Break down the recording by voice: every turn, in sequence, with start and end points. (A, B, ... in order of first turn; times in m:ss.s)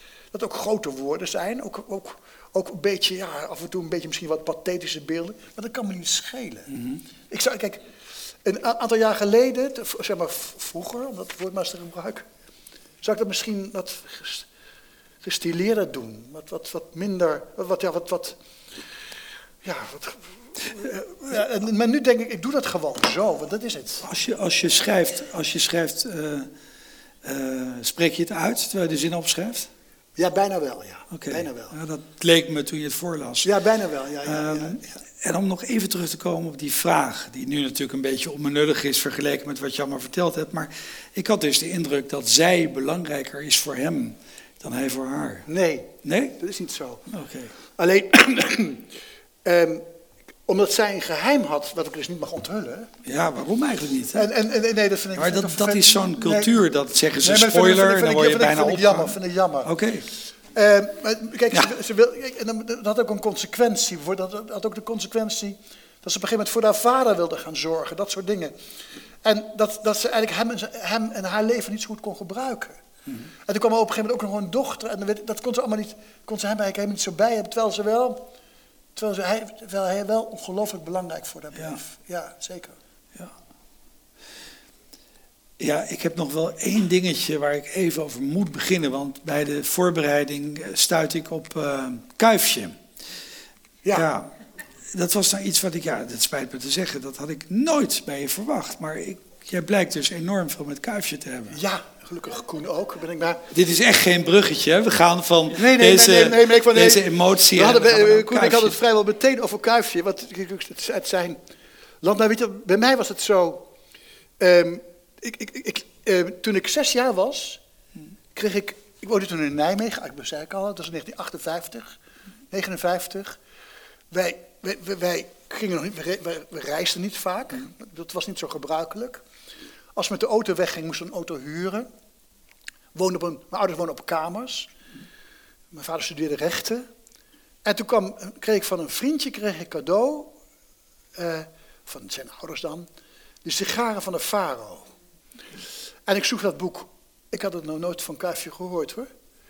0:00.3-0:06.7 A
0:07.3-0:07.8 A
0:08.4-0:12.2 A
0:13.0-0:14.5 A
0:15.2-0:18.4 A
0:19.6-0:24.1 A
0:24.0-0:26.5 B
0:27.2-0:29.7 B
0:30.2-0:31.7 A
0:31.1-0:33.5 B
0:33.4-0:34.9 A
0:34.2-0:45.5 B
0:45.5-0:47.0 A
0:46.0-0:46.4 B
0:47.1-0:47.5 B
0:47.7-0:48.9 A
0:49.4-0:49.8 A
0:50.5-0:52.9 A
0:53.0-0:54.3 B
0:54.1-0:56.6 A
0:55.2-1:00.1 B
0:57.2-0:59.7 A
1:00.5-1:08.6 A
1:09.2-1:12.8 A
1:13.4-1:18.3 A
1:19.0-1:22.8 A
1:21.6-1:21.8 B
1:25.6-1:32.8 B
1:33.8-1:34.1 A
1:33.9-1:34.3 B
1:34.9-1:41.6 B
1:41.5-1:43.4 A
1:43.5-1:48.8 B
1:45.5-1:51.4 A
1:52.0-1:53.7 A
1:54.4-1:57.6 A
1:58.3-2:02.0 A
2:02.5-2:03.4 A
2:04.1-2:09.2 A
2:10.0-2:11.9 A
2:12.9-2:14.7 A
2:15.7-2:16.8 A
2:17.6-2:20.4 A
2:21.2-2:22.9 A
2:23.4-2:24.9 A
2:26.1-2:29.1 A